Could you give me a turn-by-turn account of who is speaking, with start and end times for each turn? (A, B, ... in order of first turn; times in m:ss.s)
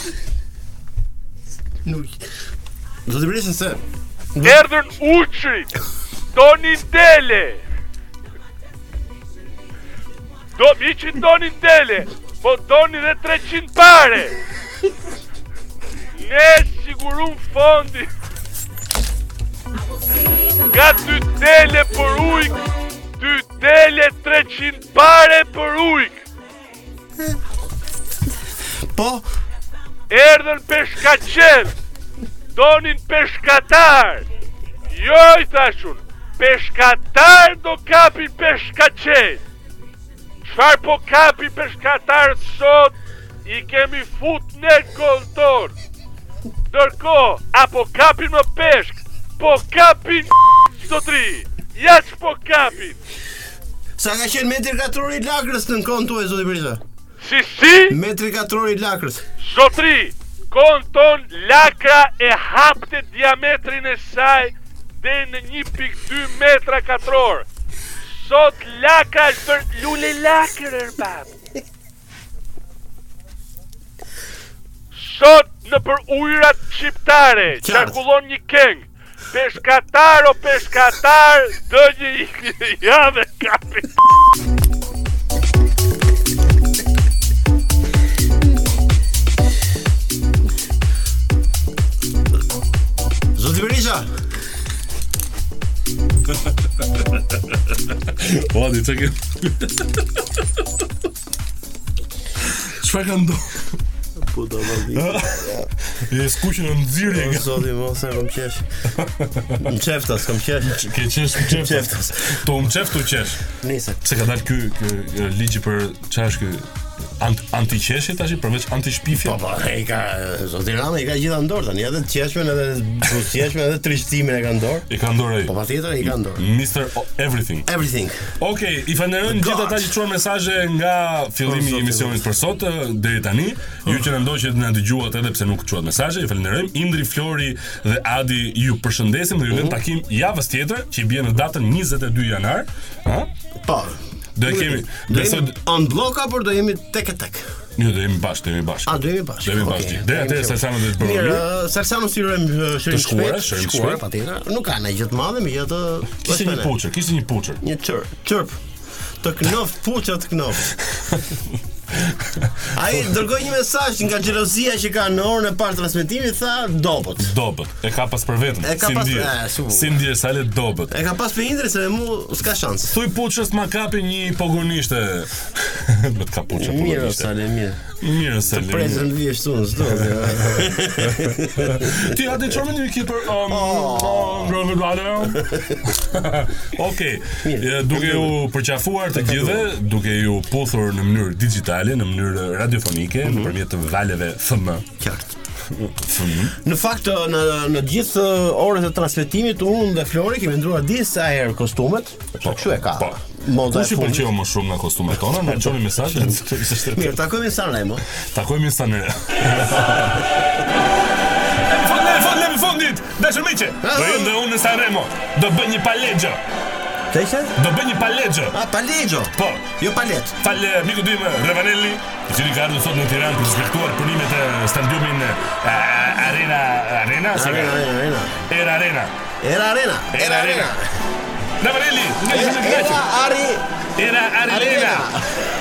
0:01.8-0:02.2 A
0:03.1-0:03.8 A
0:04.3-0:04.6 A
0:04.4-0:05.7 B
0:06.3-0:07.6 B
0:10.6-0:14.4 B
0:16.2-0:18.1 B
0:20.5-0:22.6 B
0:23.2-0:26.2 B
0:28.9-0:29.2 A
0:30.1-0:31.7 B
0:32.5-0:34.2 B
0:34.9-0:39.4 B
0:40.4-0:45.7 B
0:46.7-0:53.0 B
0:54.0-0:56.8 A
0:57.2-0:58.0 B
0:57.9-0:59.2 A
0:59.4-1:07.4 B
1:08.1-1:11.3 B
1:14.9-1:24.0 B
1:17.6-1:18.0 A
1:33.4-1:34.1 A
1:37.0-1:40.6 C
1:42.4-1:43.8 C
1:44.2-1:45.7 A
1:44.8-1:47.6 C
1:47.0-1:48.7 A
1:49.0-1:49.6 C
1:49.6-1:50.8 A
1:50.6-1:53.4 C
1:51.4-1:52.4 A
1:53.5-1:54.0 A
1:54.0-1:59.4 C
1:59.1-2:04.9 A
2:04.9-2:07.7 C
2:05.4-2:06.4 A
2:07.6-2:08.3 A
2:08.4-2:23.3 C
2:09.2-2:09.9 A
2:11.4-2:12.2 A
2:19.5-2:19.8 A
2:23.6-2:27.4 A
2:24.4-2:25.6 C
2:27.8-2:31.4 C
2:28.8-2:36.7 A
2:32.9-2:34.0 C
2:36.2-2:37.6 C
2:37.6-2:38.6 A
2:39.2-2:40.8 A
2:42.6-2:47.3 A
2:47.2-2:50.9 C
2:48.6-2:50.0 A
2:50.9-2:53.0 A
2:52.9-2:57.3 C
2:56.5-2:57.9 A
2:57.9-2:59.1 C
2:58.5-3:02.1 A
2:59.8-3:00.6 C
3:01.2-3:14.9 C
3:03.5-3:04.6 A
3:05.3-3:05.8 A
3:07.4-3:08.4 A
3:09.1-3:09.7 A
3:13.2-3:13.5 A
3:15.0-3:15.4 A
3:15.7-3:16.6 C
3:16.5-3:24.3 A
3:22.4-3:27.2 C
3:25.5-3:28.0 A
3:28.2-3:30.2 C
3:31.6-3:36.4 C
3:33.8-3:34.3 A
3:37.1-3:37.6 A
3:37.6-3:38.5 C
3:38.5-3:40.3 A
3:39.3-3:39.8 C
3:40.4-3:47.8 C
3:47.3-3:48.4 A
3:48.5-3:49.1 C
3:49.4-3:50.9 A
3:50.1-3:50.7 C
3:51.6-3:53.0 C
3:52.3-3:53.6 A
3:54.0-3:55.1 C
3:54.5-3:55.5 A